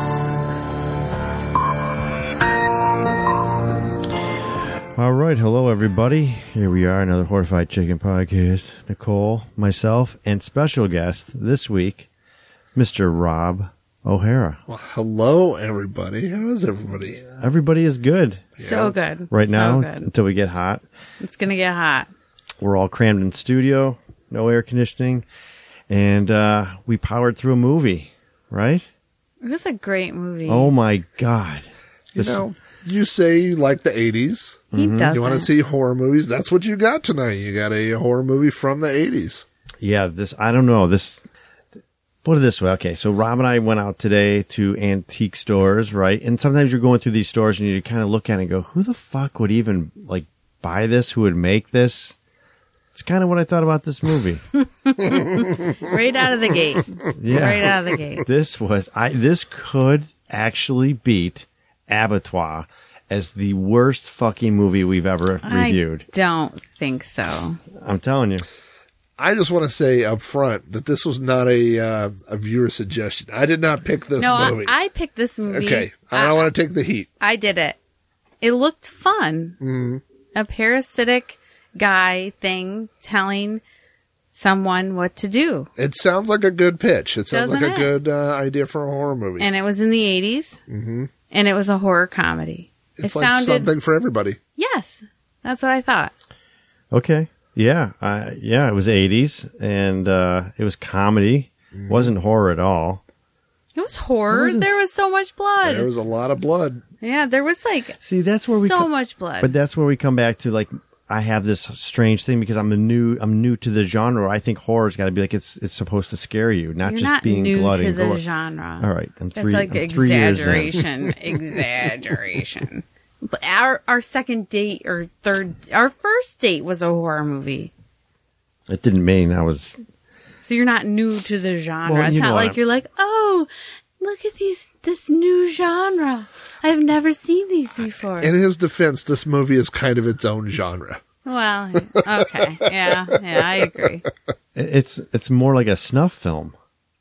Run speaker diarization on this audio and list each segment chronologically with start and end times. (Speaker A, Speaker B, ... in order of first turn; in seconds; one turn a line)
Speaker A: 5.0-12.1
Speaker A: 12.7-14.6
Speaker B: 14.7-17.2
Speaker A: 17.2-20.8
Speaker B: 18.6-18.9
Speaker C: 18.6-20.1
Speaker C: 21.2-22.1
Speaker A: 22.6-25.2
Speaker A: 25.9-28.9
Speaker C: 29.4-30.7
Speaker A: 30.5-32.4
Speaker B: 32.1-39.4
Speaker A: 34.7-35.1
Speaker C: 34.7-35.5
Speaker A: 39.8-41.2
Speaker A: 42.2-52.2
Speaker A: 52.9-54.4
Speaker C: 54.5-58.3
Speaker B: 55.0-55.9
Speaker B: 57.0-58.0
Speaker A: 57.2-66.0
Speaker C: 65.4-67.6
Speaker A: 67.8-68.4
Speaker B: 69.2-74.7
Speaker C: 74.2-76.5
Speaker B: 75.5-77.1
Speaker C: 77.2-77.8
Speaker C: 78.4-79.6
Speaker B: 79.6-80.0
Speaker C: 80.3-83.6
Speaker C: 84.3-85.7
Speaker B: 85.8-89.5
Speaker C: 87.3-87.9
Speaker C: 89.4-90.6
Speaker B: 90.7-91.1
Speaker C: 91.3-93.7
Speaker B: 93.0-94.4
Speaker C: 94.6-96.1
Speaker A: 96.9-103.0
Speaker B: 101.7-102.1
Speaker C: 103.8-105.9
Speaker A: 104.3-104.8
Speaker B: 105.6-106.8
Speaker C: 107.0-109.5
Speaker A: 108.0-108.9
Speaker A: 109.4-118.2
Speaker C: 116.8-127.7
Speaker A: 118.8-120.8
Speaker A: 128.7-129.8
Speaker C: 130.4-133.5
Speaker A: 131.8-132.6
Speaker C: 134.0-138.3
Speaker B: 138.2-141.0
Speaker C: 141.2-144.0
Speaker A: 144.5-146.5